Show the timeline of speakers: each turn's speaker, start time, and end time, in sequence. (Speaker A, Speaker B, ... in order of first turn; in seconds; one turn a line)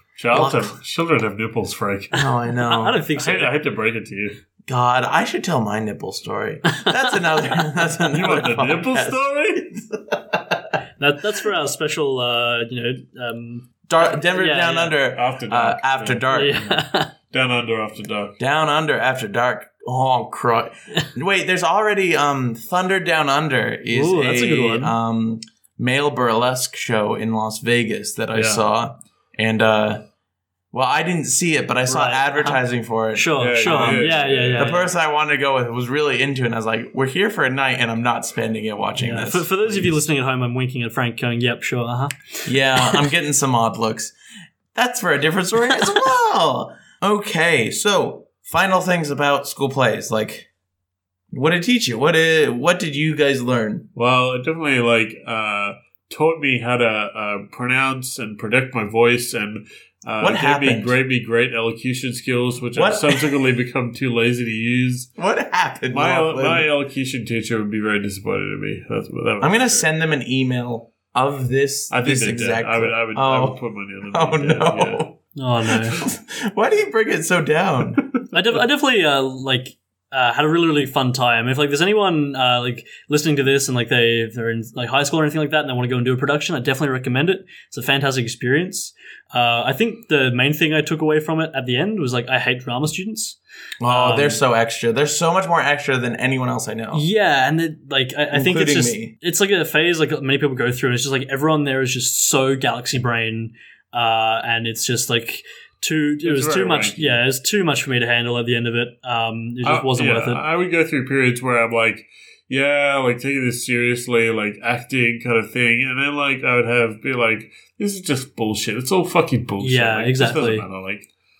Speaker A: 0.1-2.2
Speaker B: 0.3-0.8
Speaker B: 2.1-3.0
Speaker C: 2.6-3.5
Speaker A: 3.1-4.4
Speaker B: 4.7-10.7
Speaker C: 6.7-6.9
Speaker A: 8.1-9.7
Speaker C: 11.0-14.9
Speaker B: 13.9-16.6
Speaker A: 15.1-18.4
Speaker C: 16.3-17.1
Speaker B: 18.4-30.0
Speaker C: 23.9-24.9
Speaker A: 28.3-28.6
Speaker B: 30.7-40.0
Speaker C: 31.9-34.9
Speaker A: 33.4-34.8
Speaker C: 39.0-42.1
Speaker B: 42.5-44.1
Speaker B: 44.7-50.5
Speaker B: 51.3-53.9
Speaker A: 53.9-65.1
Speaker B: 60.2-61.0
Speaker B: 62.7-63.4
Speaker B: 65.2-66.7
Speaker A: 65.9-69.8
Speaker B: 69.4-73.6
Speaker A: 71.9-75.1
Speaker B: 74.1-75.1
Speaker C: 75.3-76.0
Speaker B: 75.7-78.0
Speaker C: 78.3-94.4
Speaker B: 93.8-97.0
Speaker C: 96.9-110.4
Speaker B: 98.3-99.1
Speaker A: 106.2-107.2
Speaker A: 109.6-121.1
Speaker C: 119.6-120.6